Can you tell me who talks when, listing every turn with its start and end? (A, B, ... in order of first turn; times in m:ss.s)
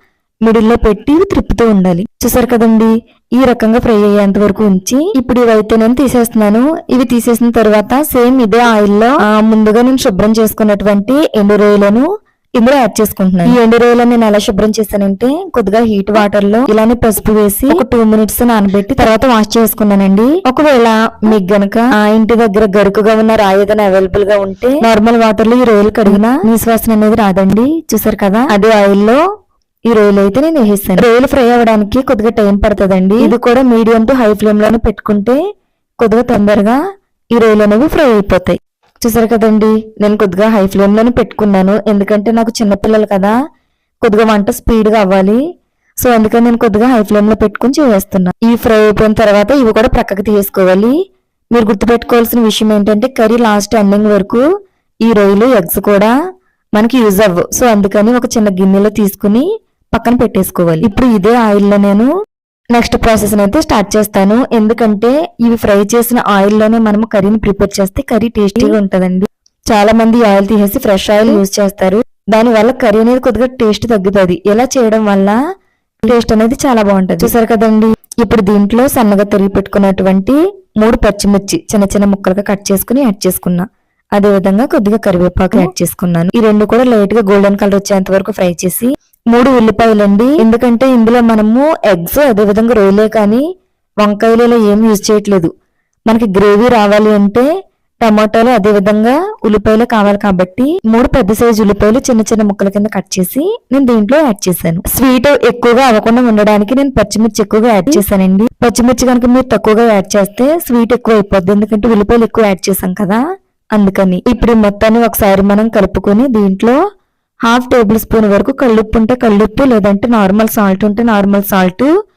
0:00.4-0:29.2 A
0:29.9-0:35.4 A
0:36.0-0:36.8 A
0:37.3-0:43.3 A
0:44.0-0:45.4 A
0:46.0-0:50.9 A
0:51.5-0:54.4 A
0:55.0-0:56.1 A
0:56.8-1:02.1 A
1:02.7-1:15.4 A
1:16.0-1:33.4 A
1:34.0-1:35.5 A
1:36.1-1:37.5 A
1:38.0-1:53.2 A
1:53.7-1:56.8 A
1:57.5-2:01.9 A